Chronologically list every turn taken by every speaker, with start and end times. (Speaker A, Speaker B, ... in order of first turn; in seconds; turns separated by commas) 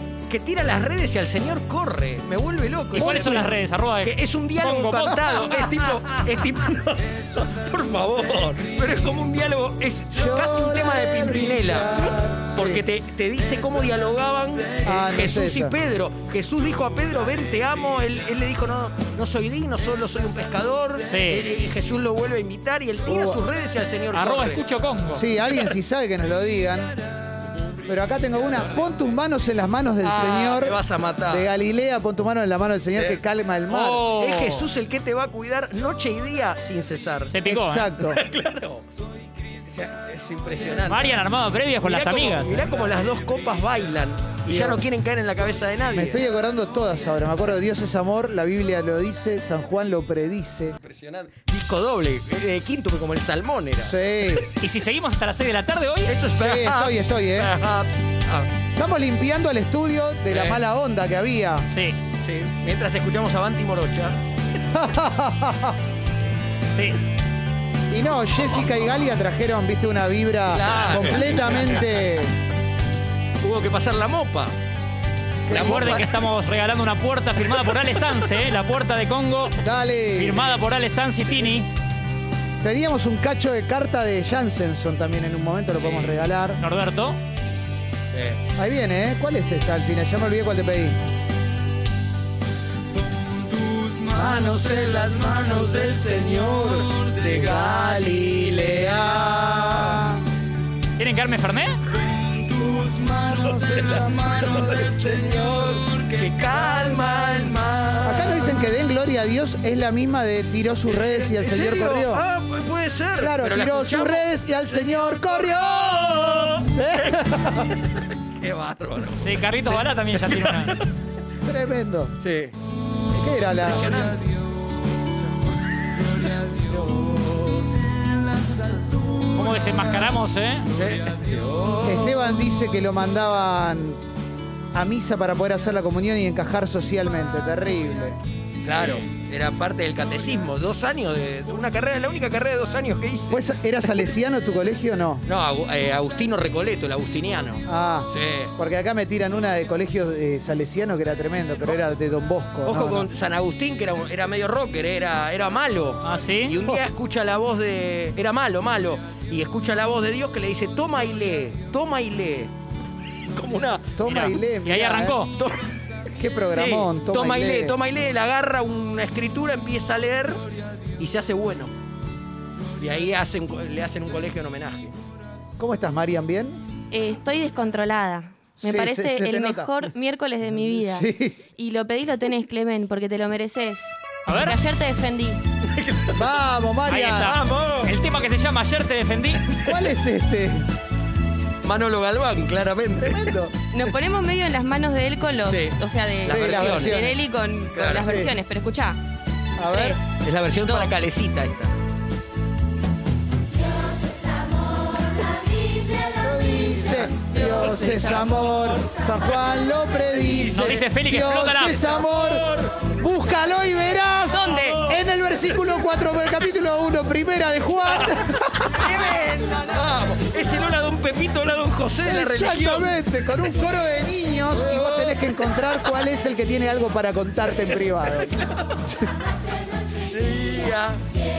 Speaker A: 0.3-3.5, Speaker B: 2.9-5.4, Speaker C: 3.0-3.5, Speaker A: 4.0-24.6, Speaker C: 10.1-12.8, Speaker C: 14.8-15.8, Speaker B: 21.1-21.5, Speaker C: 23.1-23.4, Speaker B: 24.1-25.2, Speaker C: 25.1-26.9, Speaker C: 27.9-34.1, Speaker A: 30.0-31.5, Speaker A: 33.0-33.2, Speaker B: 33.7-34.7, Speaker A: 34.1-37.4, Speaker B: 37.3-37.9, Speaker C: 37.4-38.2, Speaker A: 38.1-38.8, Speaker A: 39.7-41.2, Speaker B: 40.9-42.6, Speaker A: 41.8-46.2, Speaker C: 44.5-44.8, Speaker C: 45.9-50.8, Speaker A: 50.8-54.0, Speaker C: 53.8-54.5, Speaker B: 54.6-56.1, Speaker A: 56.1-58.5, Speaker C: 56.3-57.5, Speaker C: 58.8-61.7, Speaker A: 60.3-60.6, Speaker B: 61.7-62.0, Speaker A: 62.2-64.2, Speaker C: 64.7-65.8, Speaker B: 66.7-67.0, Speaker C: 67.9-72.3, Speaker A: 70.5-71.8, Speaker A: 73.4-74.5, Speaker C: 75.5-76.0, Speaker A: 75.5-76.1, Speaker B: 75.5-79.5, Speaker C: 79.6-80.6, Speaker B: 80.1-81.7, Speaker C: 82.6-86.6, Speaker B: 86.6-87.2, Speaker A: 88.1-88.4, Speaker C: 88.6-91.0, Speaker D: 93.5-94.1, Speaker A: 94.1-99.8, Speaker C: 96.3-100.2, Speaker B: 101.0-101.8, Speaker D: 102.5-106.6, Speaker A: 106.2-108.5, Speaker C: 108.0-112.2, Speaker A: 110.9-117.2, Speaker C: 113.2-117.7, Speaker A: 118.4-120.8, Speaker B: 119.2-120.8, Speaker C: 121.4-122.1, Speaker A: 122.2-122.5, Speaker C: 123.1-123.9, Speaker A: 123.6-124.3, Speaker A: 126.7-127.7, Speaker D: 128.7-129.8, Speaker B: 129.3-130.7, Speaker A: 130.7-132.1, Speaker D: 130.9-131.5, Speaker C: 131.8-134.0, Speaker C: 134.7-138.2, Speaker A: 138.6-143.4, Speaker C: 143.3-145.2, Speaker A: 145.2-148.5, Speaker C: 147.7-153.1, Speaker A: 152.7-162.5, Speaker B: 156.0-156.6, Speaker A: 163.3-164.0, Speaker C: 164.0-165.2, Speaker B: 164.0-165.3, Speaker C: 166.2-167.7, Speaker A: 166.5-170.4, Speaker A: 171.0-171.7, Speaker A: 172.8-174.9, Speaker C: 175.6-176.6, Speaker E: 176.9-185.4, Speaker C: 178.6-179.7, Speaker C: 180.5-181.4, Speaker B: 184.3-184.6, Speaker A: 185.7-186.3, Speaker C: 186.1-187.4, Speaker B: 186.9-189.5, Speaker A: 187.2-187.9, Speaker C: 189.6-190.7, Speaker A: 191.6-193.4, Speaker C: 193.0-193.5, Speaker E: 193.7-199.0, Speaker A: 195.4-197.1, Speaker C: 196.2-197.2, Speaker A: 197.7-198.2, Speaker C: 198.0-198.3, Speaker C: 199.6-200.0, Speaker E: 199.7-200.0, Speaker A: 200.2-201.7, Speaker E: 200.6-200.9, Speaker C: 206.1-218.9, Speaker A: 207.3-208.7, Speaker A: 210.2-210.8, Speaker B: 210.5-211.8, Speaker A: 211.7-212.8, Speaker E: 214.3-214.8, Speaker A: 214.5-215.0, Speaker A: 218.7-222.9, Speaker C: 222.0-228.3, Speaker A: 224.5-225.4, Speaker C: 228.8-229.1, Speaker A: 230.1-231.0